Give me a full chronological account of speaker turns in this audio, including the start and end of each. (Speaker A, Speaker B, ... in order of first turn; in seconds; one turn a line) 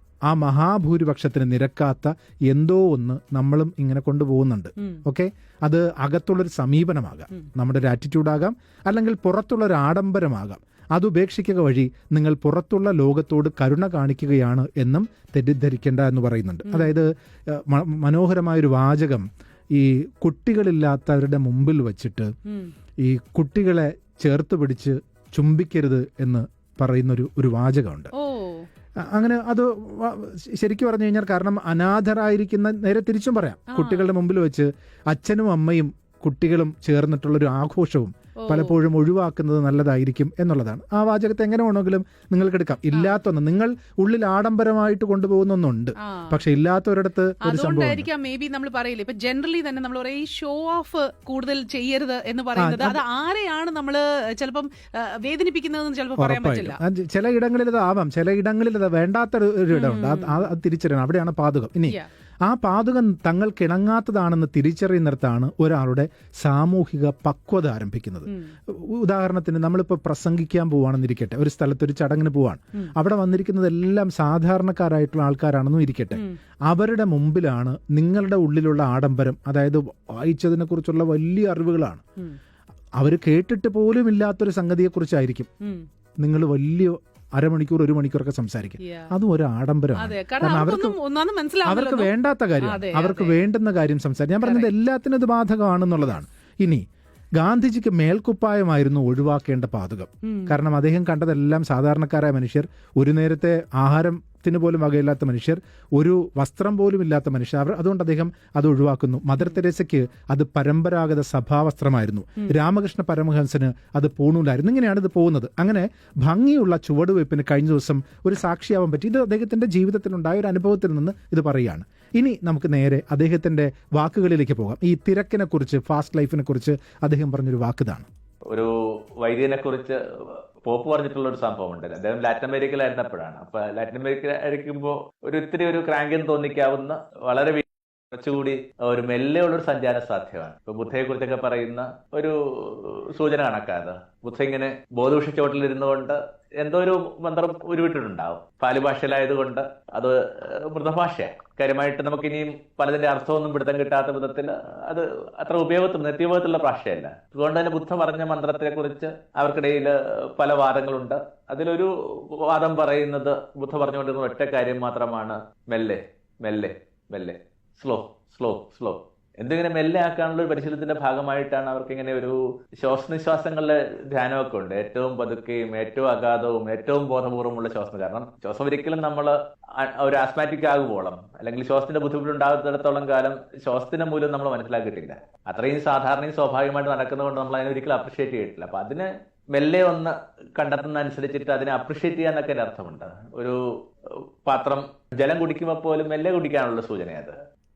Speaker A: 0.3-22.3
Speaker B: 4.8-5.0
Speaker B: 16.7-17.0
Speaker A: 23.0-28.1
Speaker B: 28.1-28.7
Speaker A: 29.0-48.1
Speaker B: 33.7-34.1
Speaker B: 38.4-38.8
Speaker B: 42.9-43.2
Speaker B: 46.0-46.4
Speaker B: 47.4-56.8
Speaker A: 52.6-53.0
Speaker A: 56.2-82.0
Speaker B: 59.7-60.5
Speaker B: 68.3-68.5
Speaker A: 83.0-85.5
Speaker A: 86.2-91.0
Speaker B: 88.8-89.1
Speaker B: 90.0-93.4
Speaker A: 91.6-96.8
Speaker B: 94.4-94.7
Speaker A: 97.4-128.1
Speaker B: 100.2-100.6
Speaker C: 128.5-193.6
Speaker C: 194.1-197.4